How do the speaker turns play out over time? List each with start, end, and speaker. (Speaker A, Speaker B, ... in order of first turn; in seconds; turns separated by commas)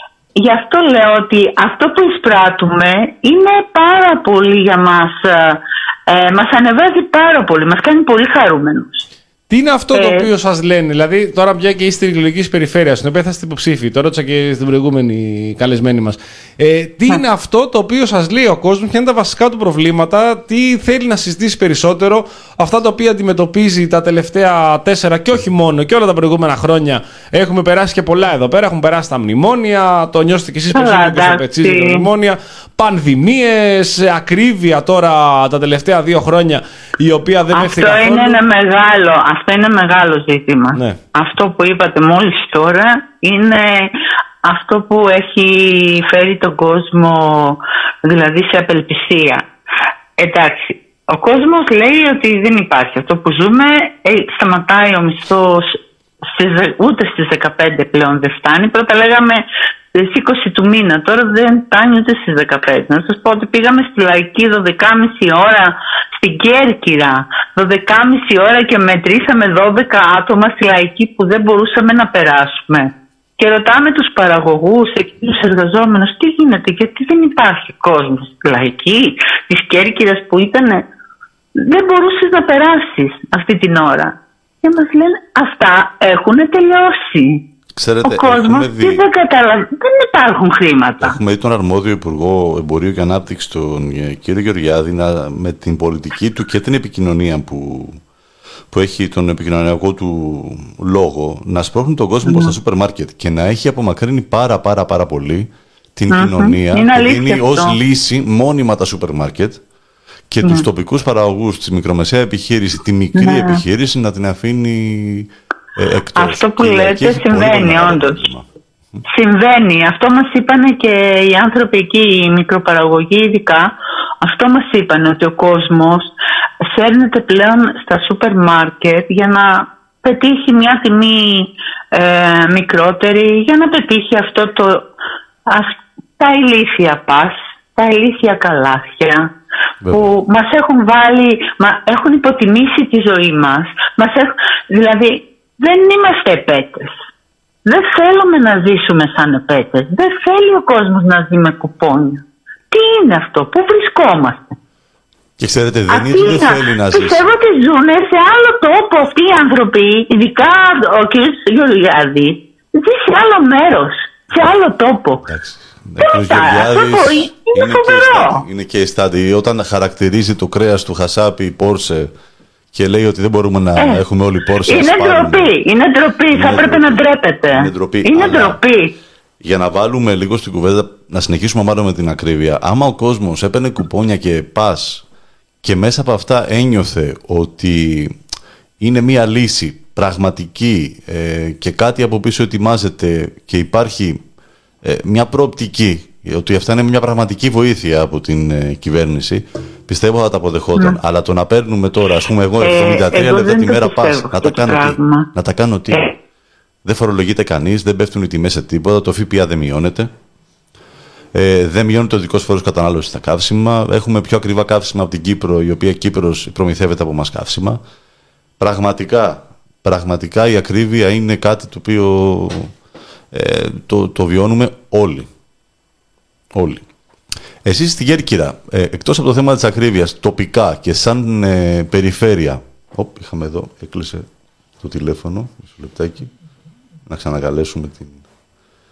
Speaker A: 0.3-9.0, Speaker B: 9.5-38.4, Speaker A: 9.9-10.3, Speaker A: 30.7-32.1, Speaker A: 37.5-43.9, Speaker A: 44.4-49.4, Speaker A: 50.2-80.8, Speaker A: 81.5-87.4, Speaker C: 87.8-89.0, Speaker A: 88.0-91.2, Speaker C: 91.0-98.0, Speaker C: 98.7-109.6, Speaker A: 102.2-102.5, Speaker A: 106.1-107.8, Speaker C: 110.3-119.0, Speaker A: 113.2-113.6, Speaker A: 116.2-118.2, Speaker A: 119.1-123.7, Speaker A: 124.2-126.1, Speaker A: 126.7-134.8, Speaker A: 135.5-139.3, Speaker A: 139.9-146.9, Speaker A: 147.6-154.5, Speaker C: 155.4-157.2, Speaker A: 155.9-165.2, Speaker C: 165.2-172.1, Speaker A: 166.0-168.4, Speaker C: 172.7-175.5, Speaker A: 173.8-174.0, Speaker A: 174.7-178.9, Speaker C: 176.3-178.6, Speaker C: 179.4-185.0, Speaker C: 185.6-188.2, Speaker C: 188.8-194.2, Speaker C: 194.8-206.1, Speaker A: 202.6-205.3, Speaker C: 206.8-210.1, Speaker C: 211.3-217.8, Speaker C: 218.6-222.7, Speaker C: 223.3-225.3, Speaker C: 226.5-226.8, Speaker C: 227.6-234.3, Speaker C: 234.8-236.3, Speaker C: 237.1-238.2